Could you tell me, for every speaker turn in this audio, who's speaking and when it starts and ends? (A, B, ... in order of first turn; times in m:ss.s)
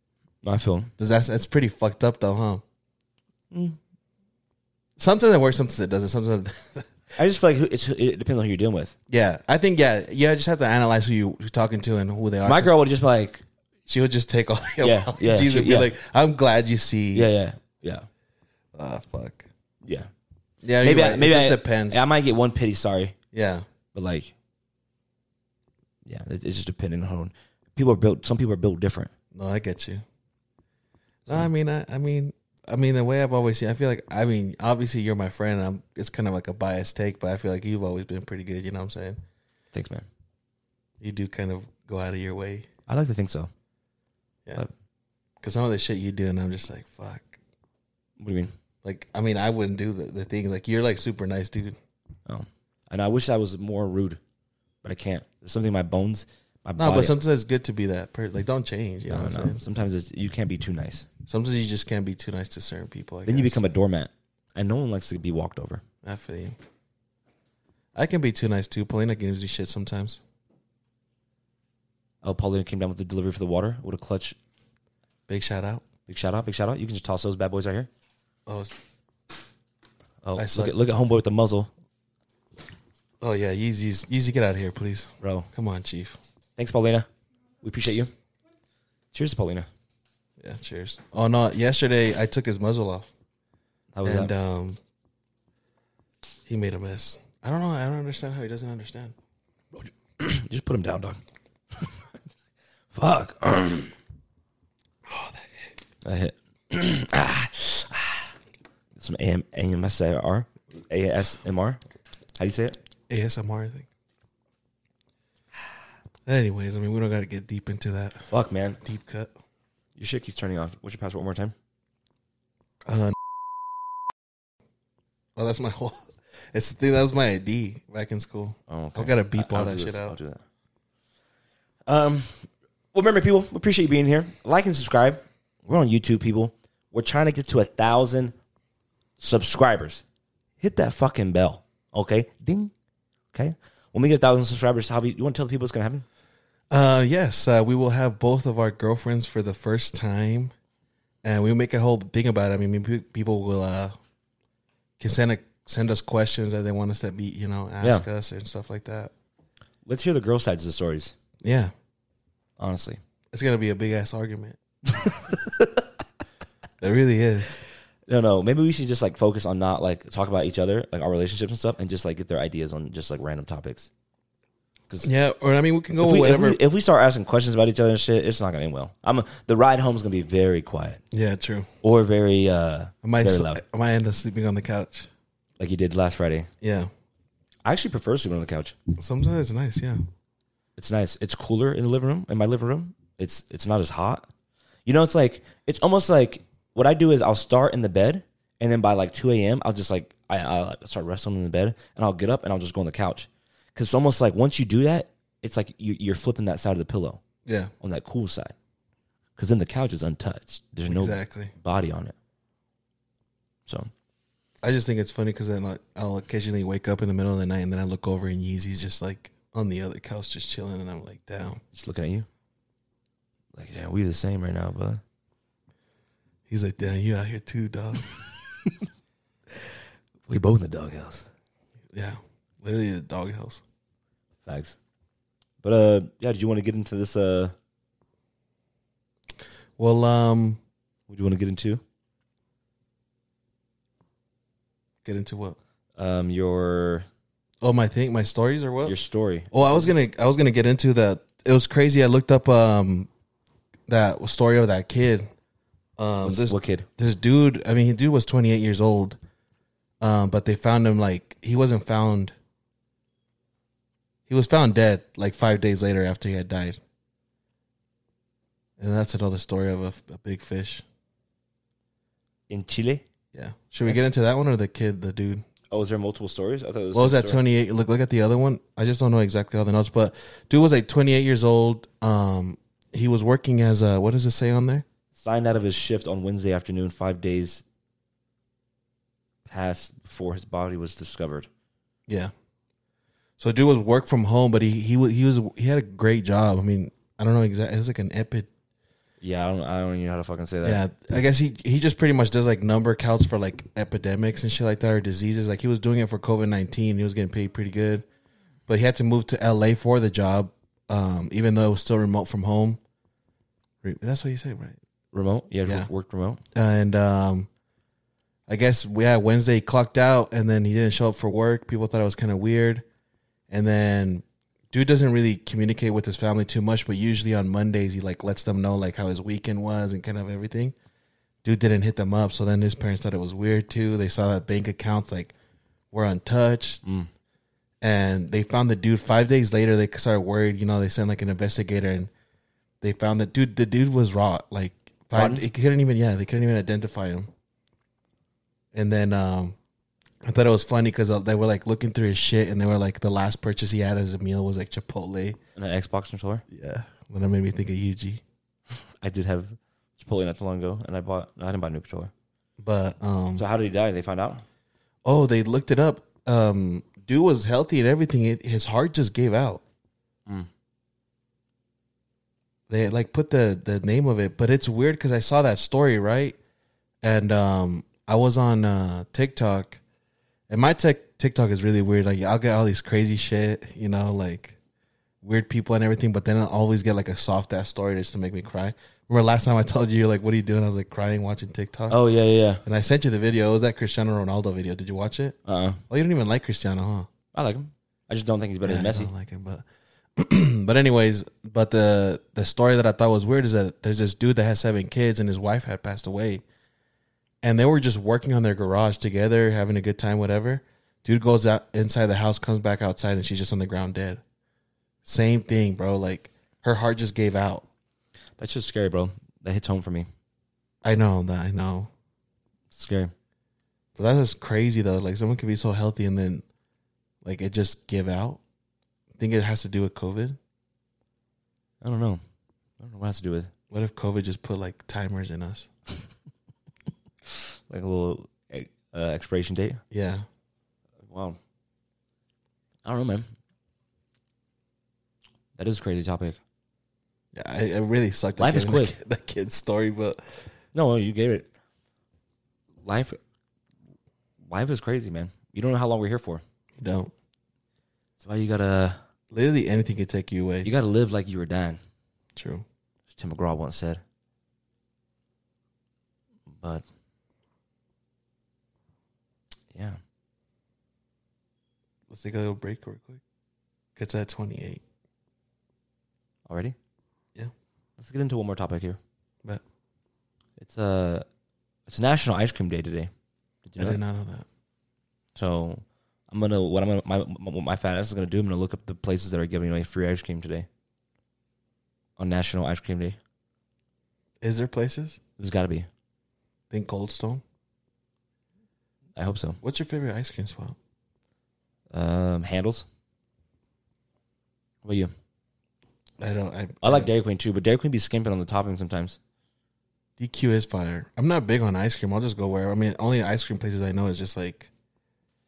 0:00.4-0:00.9 A
0:01.0-0:02.6 B
0:03.5-0:03.8 A
0:05.0-0:06.9 B
0:07.2-0:08.9 A
0:09.1-0:12.8 B
0:12.4-0:13.4 A
0:13.9-0:17.3 B
0:14.8-0:15.9 A
0:17.1-0:18.1 A
0:18.8-0:19.5 B
0:19.8-0:20.1 A
0:20.6-0:22.0 B
0:20.8-0:23.2 A
0:23.3-0:23.7 B
0:23.9-0:24.3 A
0:26.0-0:29.1 A
0:29.3-0:30.0 B
0:31.3-0:39.2 B
0:39.7-0:40.1 A
0:41.0-0:42.7 B
0:42.9-0:43.5 A
0:45.4-0:47.4 B
0:48.2-0:48.5 A
0:48.8-0:51.8 B
0:52.3-0:54.2 A
0:54.8-0:57.2 A
0:56.8-0:59.6 B
0:59.1-1:01.1 A
1:01.3-1:03.6 B
1:03.3-1:05.8 A
1:06.0-1:06.6 B
1:08.0-1:10.2 B
1:12.2-1:14.4 A
1:15.3-1:15.8 B
1:16.1-1:17.9 A
1:18.5-1:18.8 B
1:20.2-1:21.7 A
1:20.4-1:20.7 B
1:23.2-1:26.2 B
1:25.2-1:25.5 A
1:26.6-1:27.1 A
1:27.6-1:28.1 A
1:29.1-1:29.7 A
1:30.4-1:33.1 B
1:33.9-1:34.3 A
1:34.0-1:34.8 B
1:36.5-1:39.2 B
1:39.7-1:41.2 A
1:42.9-1:43.9 A
1:45.1-1:45.6 B
1:46.0-1:48.2 A
1:49.0-1:51.8 A
1:52.4-1:52.8 A
1:53.1-1:53.9 B
1:56.3-1:58.3 B
1:58.3-1:58.8 A
1:58.8-1:59.3 B
2:00.0-2:01.5 A
2:02.9-2:03.2 B
2:05.4-2:10.2 B
2:08.7-2:10.4 A
2:11.9-2:18.4 A
2:19.2-2:20.0 A
2:20.6-2:22.7 A
2:23.3-2:26.0 A
2:26.7-2:30.5 B
2:31.2-2:34.0 B
2:35.0-2:39.1 B
2:39.8-2:41.1 A
2:41.4-2:41.7 B
2:42.6-2:43.0 A
2:43.3-2:44.6 B
2:45.1-2:45.8 A
2:46.8-2:47.6 B
2:48.1-2:53.9 A
2:55.0-2:56.6 B
2:56.0-3:01.0 A
3:01.1-3:01.7 B
3:01.8-3:03.6 A
3:03.0-3:05.1 B
3:05.6-3:06.5 A
3:06.6-3:06.9 B
3:07.6-3:08.8 A
3:09.0-3:10.0 B
3:10.8-3:14.3 A
3:14.9-3:27.2 A
3:27.5-3:27.7 B
3:27.8-3:28.5 A
3:29.4-3:32.2 A
3:30.9-3:31.5 B
3:33.7-3:33.9 A
3:34.6-3:41.6 B
3:41.7-3:42.3 A
3:43.5-3:45.0 A
3:46.5-3:48.1 B
3:50.3-3:51.3 A
3:51.9-3:53.6 B
3:54.4-3:54.8 A
3:55.6-3:57.5 A
3:59.8-4:00.6 B
4:01.1-4:01.8 A
4:05.0-4:05.6 B
4:06.0-4:07.1 A
4:07.6-4:09.0 B
4:08.9-4:09.9 A
4:09.5-4:13.1 B
4:13.9-4:15.3 B
4:16.0-4:19.2 B
4:16.2-4:16.9 A
4:20.0-4:22.3 B
4:24.3-4:26.8 B
4:28.8-4:30.8 B
4:32.5-4:33.0 A
4:33.3-4:35.4 B
4:35.7-4:37.4 A
4:36.9-4:44.8 B
4:45.2-4:47.6 A
4:49.5-4:51.5 A
4:52.1-4:52.3 B
4:53.4-4:58.5 B
4:59.2-5:00.8 A
5:00.6-5:08.0 B
5:08.7-5:12.8 B
5:13.8-5:14.8 B
5:15.1-5:16.4 A
5:16.6-5:17.5 B
5:18.5-5:22.8 B
5:23.5-5:30.8 B
5:31.4-5:35.3 B
5:35.9-5:36.8 B
5:36.8-5:37.1 A
5:37.8-5:42.1 B
5:42.8-5:47.3 B
5:45.1-5:45.4 A
5:48.7-5:49.6 B
5:50.2-5:55.4 B
5:55.6-5:56.4 A
5:56.5-5:58.2 B
5:59.0-6:02.1 A
6:02.6-6:03.5 B
6:03.4-6:04.4 A
6:05.0-6:09.6 B
6:12.7-6:16.4 B
6:17.0-6:19.8 B
6:20.5-6:24.6 B
6:25.2-6:32.0 B
6:31.9-6:32.6 A
6:32.6-6:35.4 B
6:35.5-6:35.8 A
6:35.9-6:37.1 B
6:37.3-6:39.1 A
6:38.6-6:39.6 B
6:40.2-6:46.4 B
6:47.4-6:54.2 B
6:55.0-6:57.7 B
6:58.4-7:00.1 A
7:00.8-7:01.9 B
7:02.7-7:03.1 A
7:04.0-7:06.4 B
7:07.2-7:08.4 B
7:09.2-7:10.4 B
7:11.8-7:12.2 A
7:12.8-7:13.5 A
7:13.7-7:15.7 B
7:17.7-7:19.8 A
7:19.9-7:20.2 B
7:21.0-7:21.4 A
7:22.8-7:23.3 A
7:25.6-7:26.4 A
7:27.3-7:30.2 B
7:28.4-7:29.0 A
7:30.7-7:31.5 A
7:32.8-7:33.2 A
7:34.4-7:36.4 A
7:36.8-7:37.1 B
7:38.2-7:39.0 A
7:39.3-7:40.7 B
7:40.6-7:41.8 A
7:42.4-7:42.6 B
7:43.1-7:44.0 A
7:46.5-7:46.8 A
7:49.7-7:50.0 A
7:52.1-7:53.2 B
7:54.0-7:54.8 B
7:56.5-7:56.8 A
7:58.0-7:59.0 A
8:00.6-8:01.3 A
8:01.9-8:03.1 A
8:03.6-8:04.0 A
8:03.8-8:04.5 B
8:05.4-8:10.7 A
8:12.2-8:13.2 A
8:14.4-8:15.2 B
8:15.4-8:15.9 A
8:16.7-8:17.4 B
8:19.2-8:19.6 A
8:19.6-8:20.8 B
8:21.9-8:22.9 A
8:24.8-8:25.1 A
8:26.2-8:27.1 B
8:26.8-8:29.2 A
8:30.2-8:34.7 B